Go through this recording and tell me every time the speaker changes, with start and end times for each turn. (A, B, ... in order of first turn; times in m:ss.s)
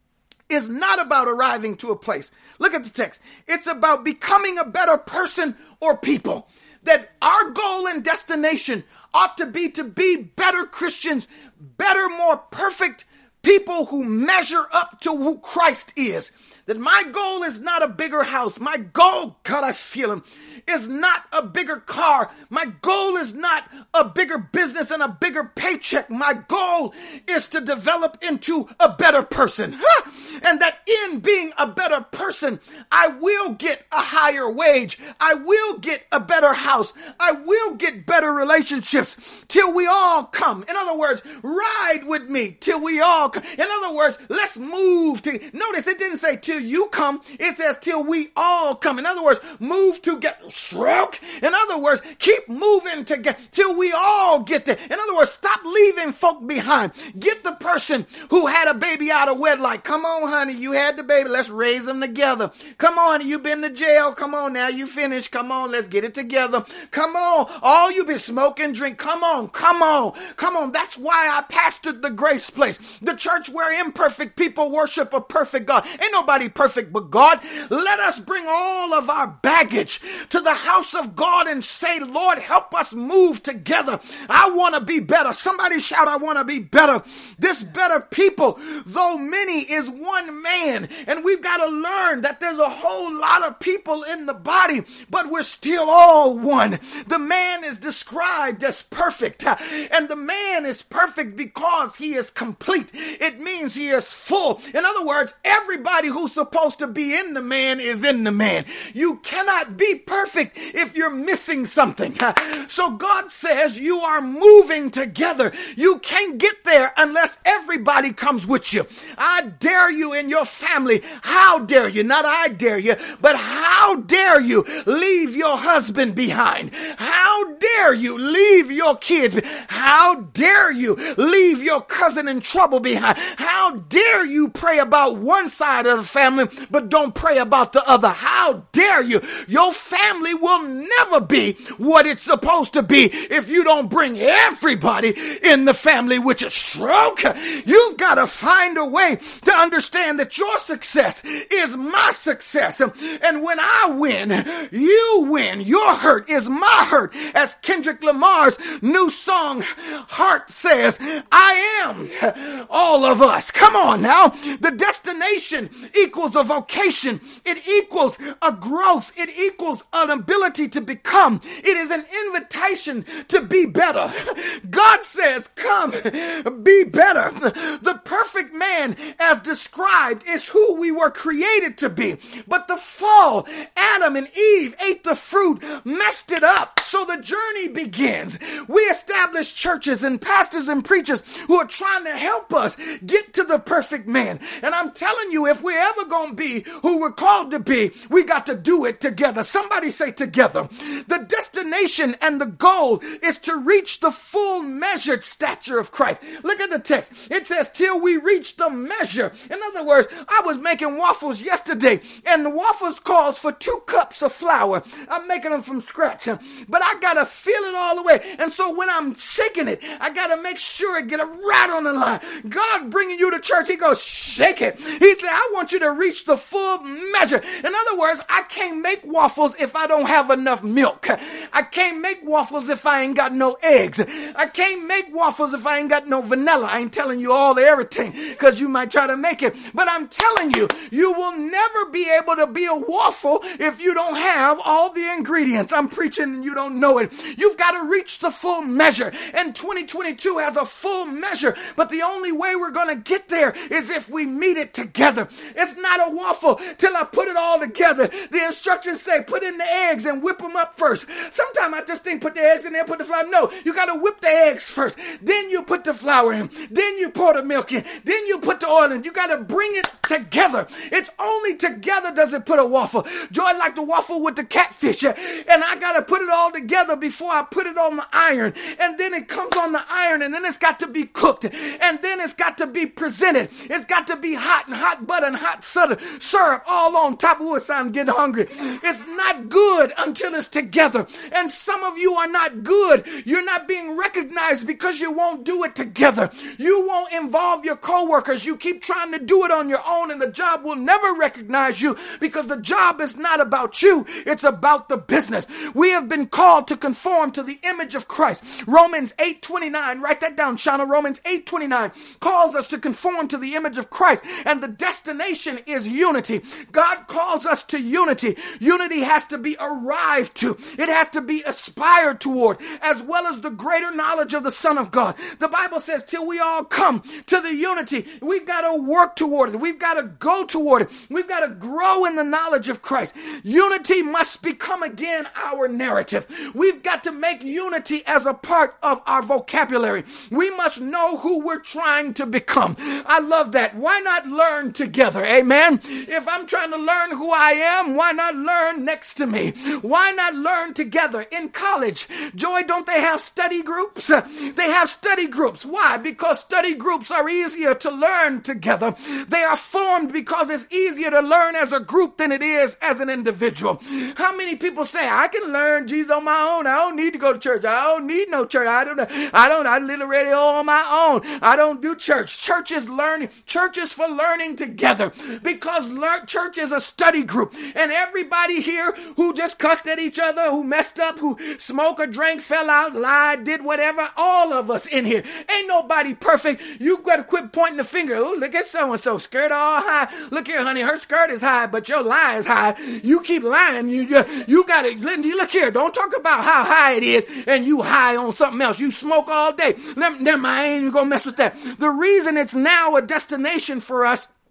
0:00.5-6:44.3 A